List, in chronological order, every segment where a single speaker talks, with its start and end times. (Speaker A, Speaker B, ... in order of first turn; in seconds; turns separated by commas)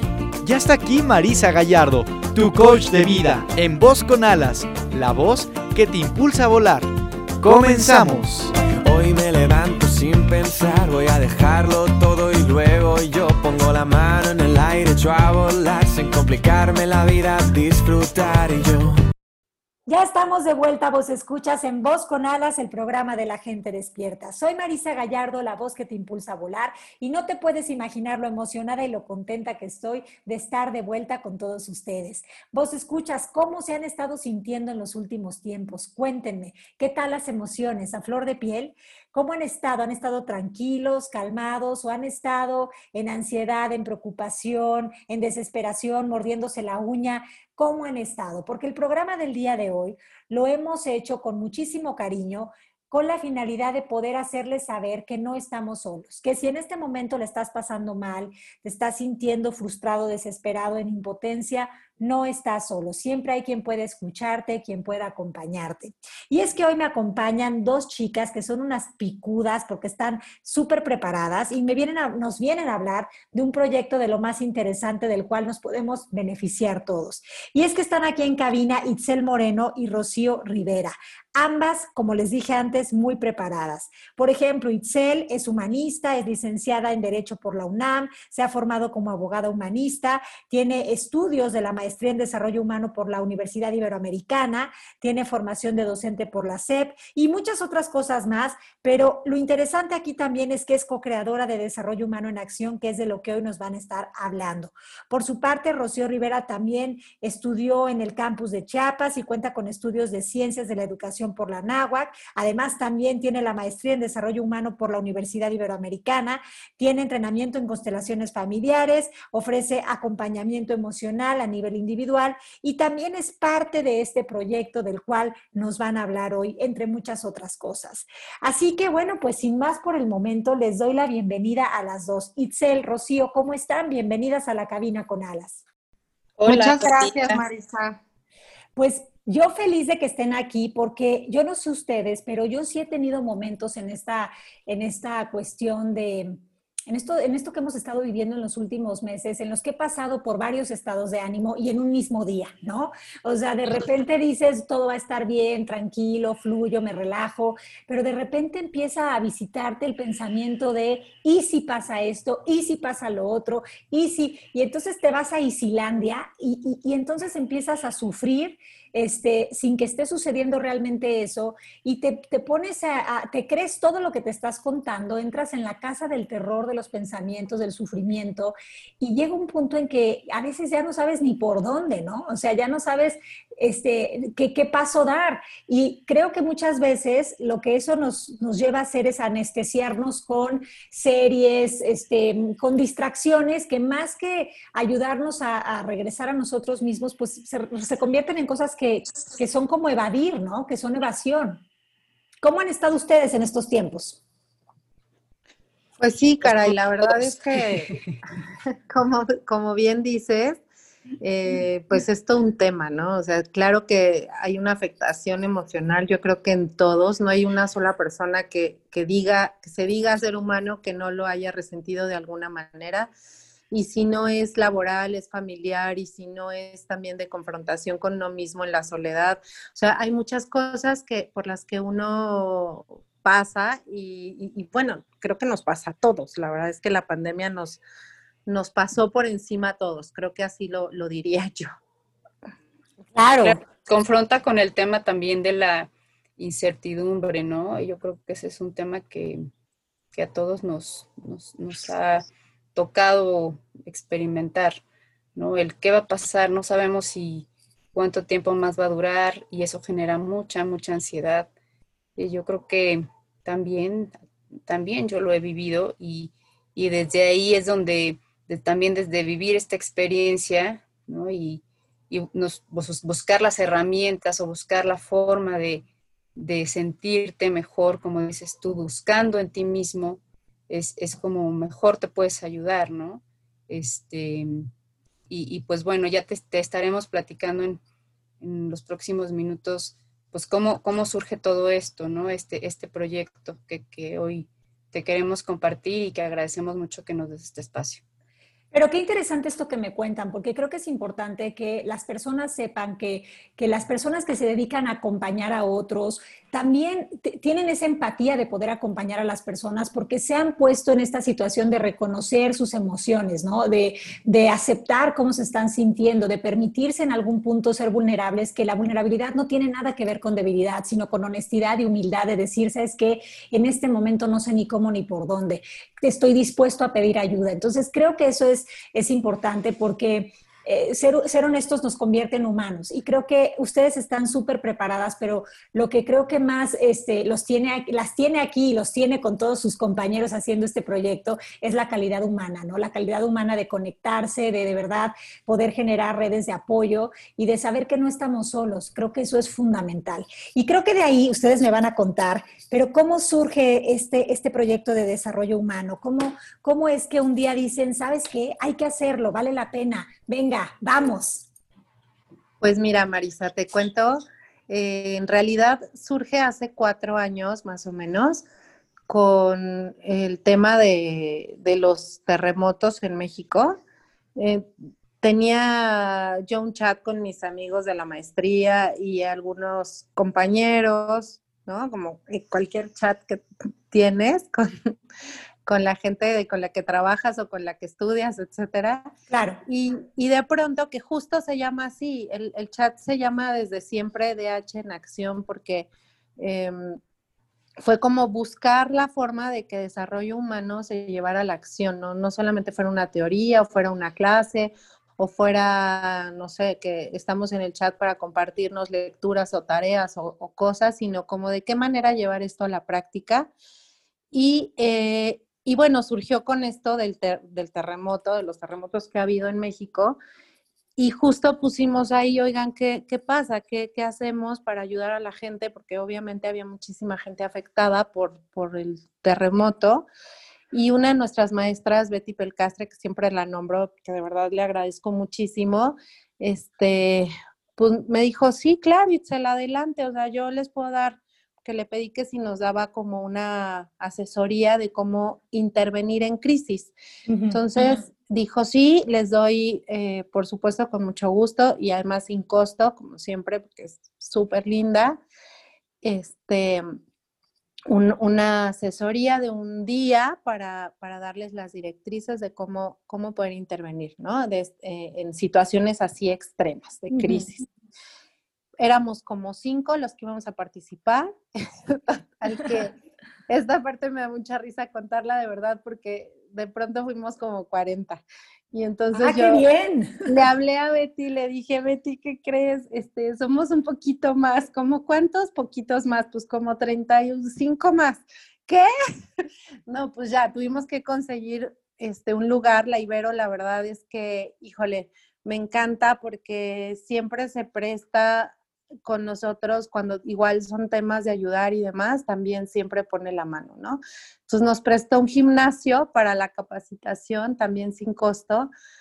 Speaker A: 0.4-6.9, Speaker A: 7.4-8.5, Speaker B: 8.7-18.9, Speaker C: 19.9-135.6, Speaker D: 136.4-137.4, Speaker E: 136.4-138.0, Speaker C: 138.8-201.6, Speaker C: 202.4-204.2, Speaker E: 206.0-208.0, Speaker D: 207.9-208.2, Speaker E: 208.9-210.6, Speaker E: 211.2-223.1, Speaker E: 223.7-237.8, Speaker E: 238.4-241.7, Speaker C: 243.1-243.6, Speaker D: 243.4-249.4, Speaker D: 250.1-252.2, Speaker D: 252.7-254.8, Speaker D: 255.3-261.5, Speaker D: 262.1-264.1, Speaker D: 264.7-275.8, Speaker D: 276.4-284.7, Speaker D: 285.3-287.8, Speaker D: 288.4-298.0, Speaker C: 298.7-361.5, Speaker E: 362.6-368.4, Speaker E: 369.1-373.8, Speaker E: 374.4-374.7, Speaker E: 375.2-384.9, Speaker E: 385.6-389.1, Speaker C: 389.3-389.6, Speaker E: 389.6-397.0, Speaker E: 397.8-413.5, Speaker E: 414.3-420.2, Speaker E: 421.0-430.1, Speaker E: 430.7-446.9, Speaker C: 447.3-447.6, Speaker E: 447.5-455.2, Speaker E: 456.0-457.0, Speaker E: 457.9-467.6, Speaker C: 467.1-467.4, Speaker E: 468.8-471.3, Speaker E: 471.9-473.0, Speaker E: 473.5-479.6, Speaker C: 479.1-480.3, Speaker E: 480.2-488.9, Speaker E: 489.9-508.7